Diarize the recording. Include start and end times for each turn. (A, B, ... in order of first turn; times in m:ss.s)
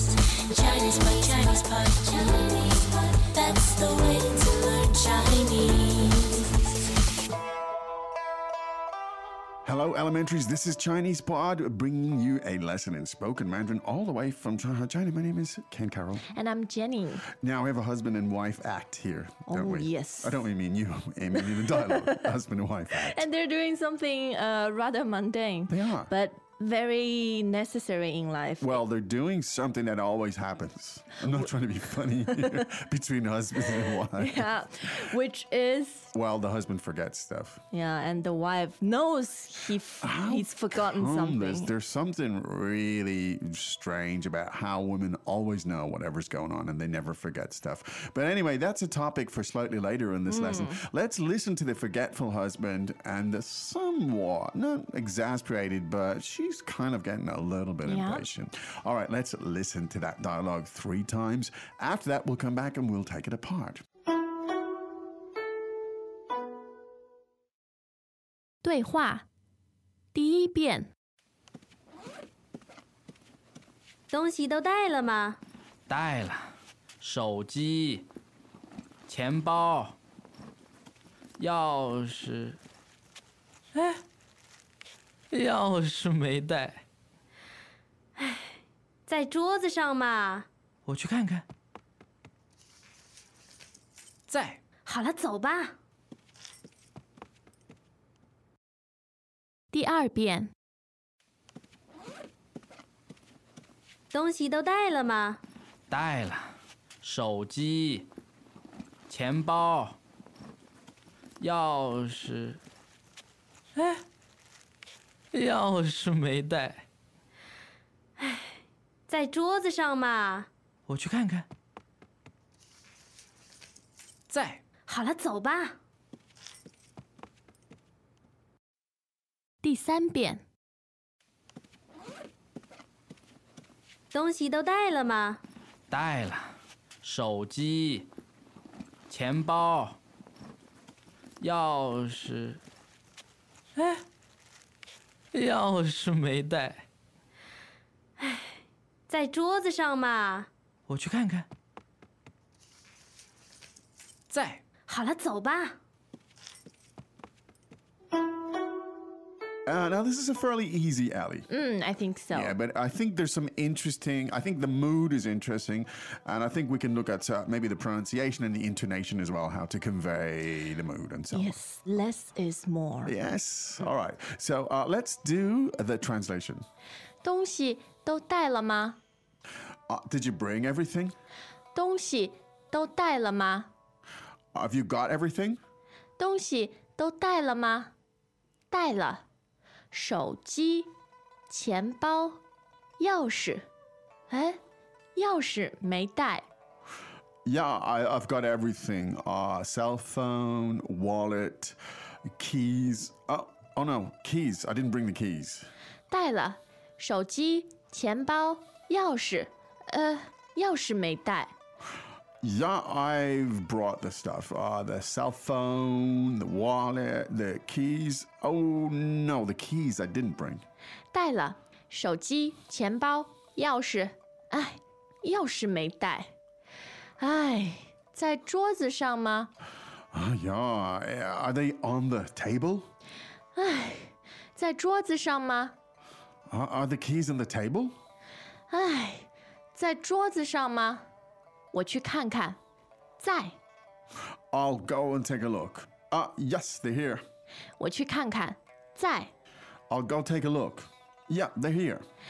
0:00.5-0:06.4 A
0:09.6-0:16.2 B
0:16.3-0:17.2 C
0:17.4-0:23.2 B
0:19.5-0:20.4 C
0:21.4-0:22.2 C
0:22.9-0:28.8 C
0:25.7-0:26.1 B
0:28.6-0:34.5 B
0:32.3-0:32.6 C
0:33.6-0:36.1 C
0:36.1-0:37.6 B
0:37.7-0:41.7 C
0:40.0-1:03.8 B
0:50.2-0:50.8 C
0:57.8-0:58.2 C
1:08.6-1:09.2 C
1:10.1-1:10.9 C
1:14.1-1:15.4 D
1:15.9-1:18.1 E
1:19.1-1:20.0 E
1:21.4-1:22.6 E
1:23.7-1:24.0 E
1:25.3-1:26.8 E
1:28.2-1:28.5 D
1:29.1-1:30.5 D
1:30.9-1:31.4 E
1:34.3-1:34.6 E
1:34.8-1:35.7 D
1:39.7-1:40.5 C
1:44.1-1:45.4 D
1:45.9-1:48.1 E
1:49.1-1:50.0 E
1:51.4-1:52.6 E
1:53.8-1:54.0 E
1:55.3-1:56.8 E
1:58.2-1:58.6 D
1:59.1-2:00.5 D
2:00.9-2:01.4 E
2:04.3-2:04.6 E
2:04.9-2:05.7 D
2:09.6-2:10.4 C
2:14.1-2:15.4 D
2:15.9-2:18.1 E
2:19.1-2:20.0 E
2:21.4-2:22.6 E
2:23.8-2:24.0 E
2:25.3-2:26.8 E
2:28.2-2:28.5 D
2:29.1-2:30.5 D
2:30.9-2:31.4 E
2:34.3-2:34.6 E
2:34.9-2:35.7 D
2:39.6-2:41.5 B
2:41.5-2:42.5 C
2:42.3-2:51.6 B
2:51.3-2:53.1 C
2:53.0-2:56.6 B
2:57.2-2:59.0 C
2:59.9-3:01.1 B
3:01.7-3:03.7 C
3:04.5-3:05.6 B
3:06.2-3:07.9 C
3:08.7-3:09.2 C
3:09.9-3:10.9 C
3:11.5-3:12.4 C
3:13.0-3:13.6 C
3:14.3-3:14.6 C
3:15.1-3:16.4 C
3:17.4-3:21.8 B
3:22.3-3:25.7 B
3:26.1-3:31.5 C
3:32.4-3:40.6 B
3:41.1-3:46.3 C
3:47.2-3:49.5 C
3:50.1-3:52.9 B
3:53.5-3:55.7 C
3:56.5-3:58.0 B
3:58.7-4:01.0 C
4:01.7-4:02.6 C
4:03.2-4:03.5 C
4:04.5-4:07.2 B
4:07.8-4:09.3 C
4:09.9-4:12.0 B